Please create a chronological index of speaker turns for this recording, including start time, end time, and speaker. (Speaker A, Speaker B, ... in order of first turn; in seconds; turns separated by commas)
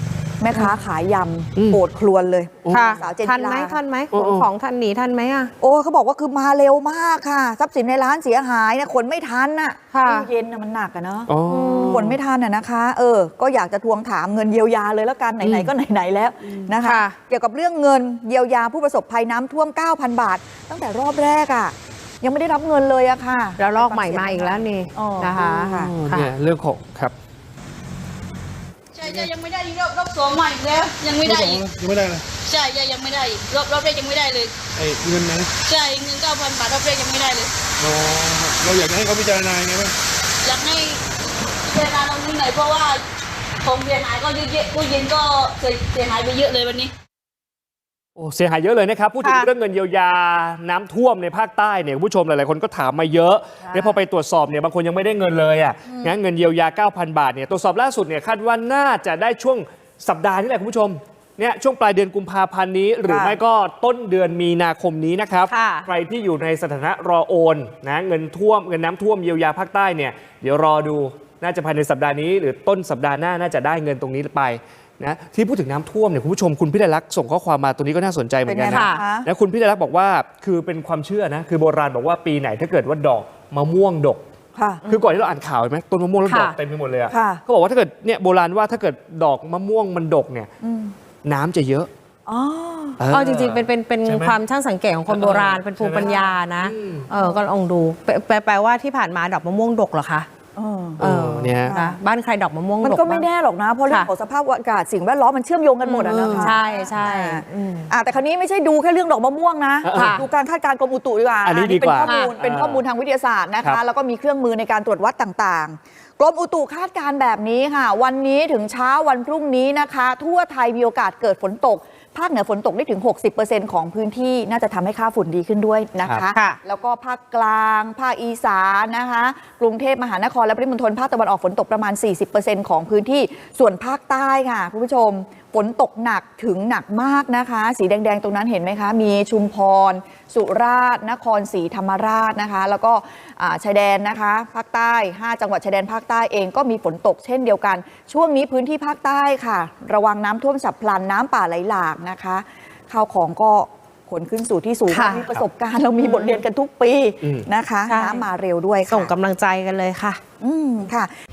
Speaker A: 0.4-3.8, Speaker B: 2.6-3.0, Speaker C: 2.7-5.5, Speaker B: 4.1-4.5, Speaker A: 5.6-25.9, Speaker C: 9.9-10.3, Speaker B: 11.3-12.2, Speaker C: 11.5-12.1, Speaker B: 15.4-15.7, Speaker C: 16.8-17.2, Speaker C: 23.6-26.3, Speaker B: 25.6-27.1, Speaker D: 28.9-34.8, Speaker E: 31.6-32.2, Speaker E: 34.9-35.5, Speaker D: 35.6-37.5, Speaker E: 38.0-39.9, Speaker D: 40.4-41.0, Speaker D: 41.6-43.0, Speaker D: 43.6-46.9, Speaker B: 48.2-84.2, Speaker C: 49.2-49.5, Speaker A: 53.6-54.0, Speaker A: 55.9-56.1, Speaker A: 63.1-63.4, Speaker C: 65.5-65.9, Speaker A: 78.5-79.3, Speaker C: 78.7-79.0, Speaker A: 84.5-84.9, Speaker B: 84.8-90.5, Speaker C: 86.2-86.6, Speaker A: 87.1-87.4, Speaker A: 90.6-90.9, Speaker B: 91.2-91.9, Speaker A: 92.3-93.0, Speaker B: 93.0-94.4, Speaker C: 93.1-100.3, Speaker B: 95.1-97.1, Speaker A: 100.6-101.0, Speaker B: 101.0-101.8, Speaker C: 101.0-103.2, Speaker A: 101.7-102.0, Speaker A: 102.8-159.1, Speaker C: 105.8-107.9, Speaker B: 106.1-106.5, Speaker B: 109.8-110.2, Speaker C: 109.9-110.2, Speaker B: 111.4-112.8, Speaker C: 112.0-112.3, Speaker C: 126.3-126.6, Speaker C: 154.9-155.2, Speaker C: 156.0-156.4, Speaker C: 157.9-158.2, Speaker C: 158.9-160.2, Speaker A: 160.4-161.1